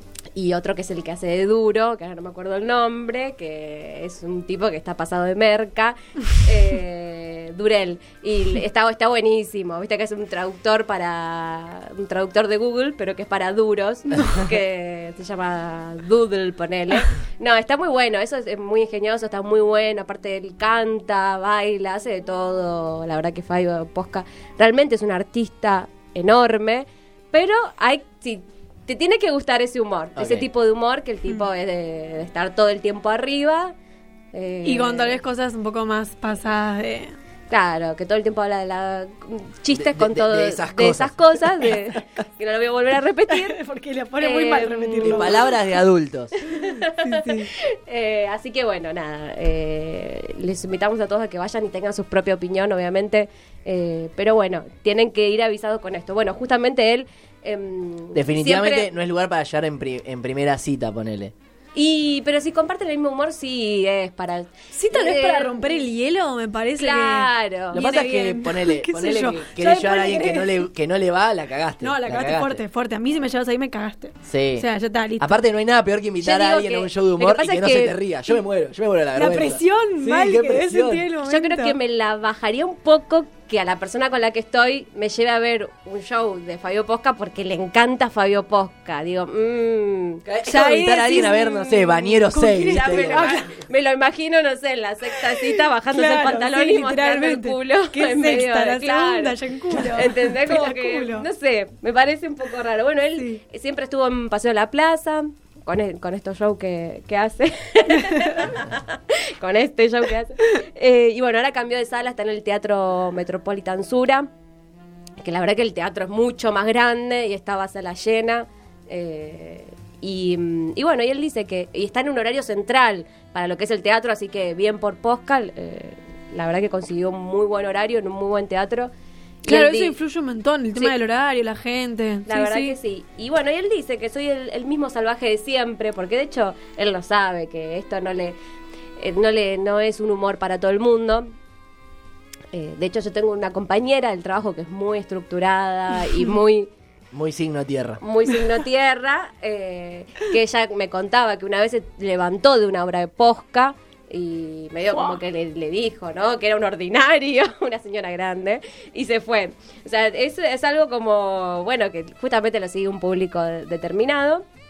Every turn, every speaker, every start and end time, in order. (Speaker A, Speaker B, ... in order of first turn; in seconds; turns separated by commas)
Speaker A: 0.3-33.8, Speaker B: 30.2-30.5, Speaker A: 34.3-35.2, Speaker C: 34.6-37.1, Speaker A: 37.5-43.6, Speaker B: 39.8-41.8, Speaker C: 43.3-45.4, Speaker A: 44.2-45.4, Speaker B: 45.0-46.3, Speaker A: 46.5-58.9, Speaker C: 47.0-47.5, Speaker B: 58.1-61.3, Speaker A: 61.8-65.8, Speaker C: 64.8-70.7, Speaker A: 66.8-67.8, Speaker B: 67.7-72.6, Speaker C: 71.8-75.4, Speaker B: 74.3-74.7, Speaker B: 75.2-81.1, Speaker A: 76.2-78.0, Speaker C: 79.2-81.8, Speaker A: 81.3-90.2, Speaker B: 90.2-93.5, Speaker C: 90.5-93.5, Speaker A: 92.7-114.3, Speaker C: 95.9-101.2, Speaker A: 115.2-128.9, Speaker A: 129.4-129.9, Speaker C: 129.5-132.8, Speaker A: 132.3-138.4, Speaker A: 139.0-141.3, Speaker A: 142.5-146.7, Speaker B: 147.1-148.0, Speaker A: 148.0-164.4